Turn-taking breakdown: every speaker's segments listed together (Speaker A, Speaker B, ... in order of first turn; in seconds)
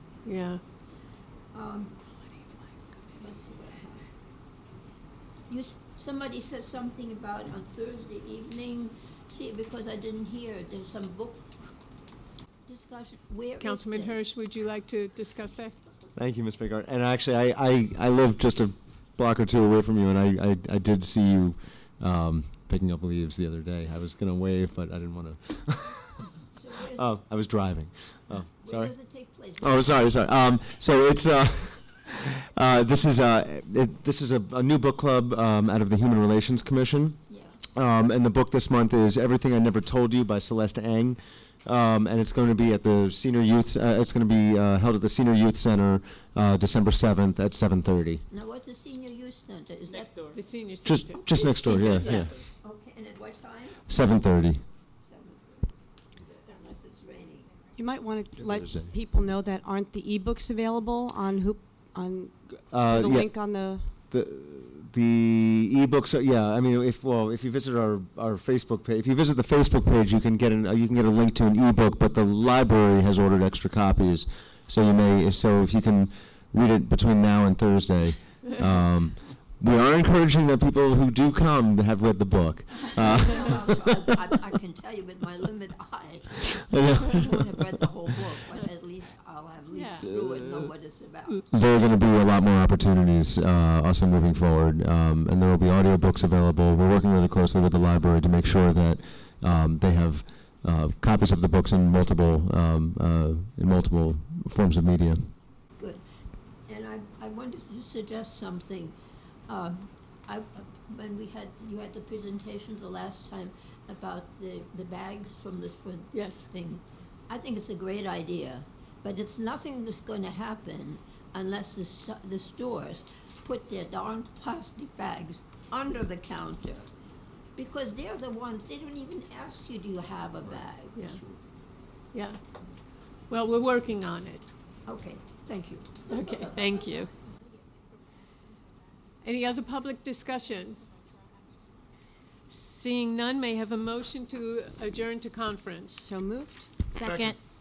Speaker A: 0.2-0.6, 13.6-15.7, 50.3-51.2, 89.7-90.0, 116.1-116.5, 130.9-131.2, 132.1-132.4, 133.3-134.5, 136.1-137.1, 139.2-140.8, 142.5-146.1
Speaker B: 1.5-2.0, 3.1-4.1, 5.5-11.5, 12.7-14.3, 26.5-27.1, 28.6-30.1, 37.3-37.6, 48.3-50.4, 51.1-53.8, 55.0-57.5, 82.8-91.4, 105.8-106.0, 106.7-108.9, 109.5-126.9, 127.5-131.2, 134.8-137.0
Speaker C: 16.1-26.2, 26.9-28.9, 29.6-37.2, 37.7-48.2, 50.8-52.4, 53.9-54.6, 58.4-58.9, 62.7-63.3, 64.1-84.0, 86.5-87.4, 91.5-105.3
Speaker D: 57.7-63.9, 146.0-147.3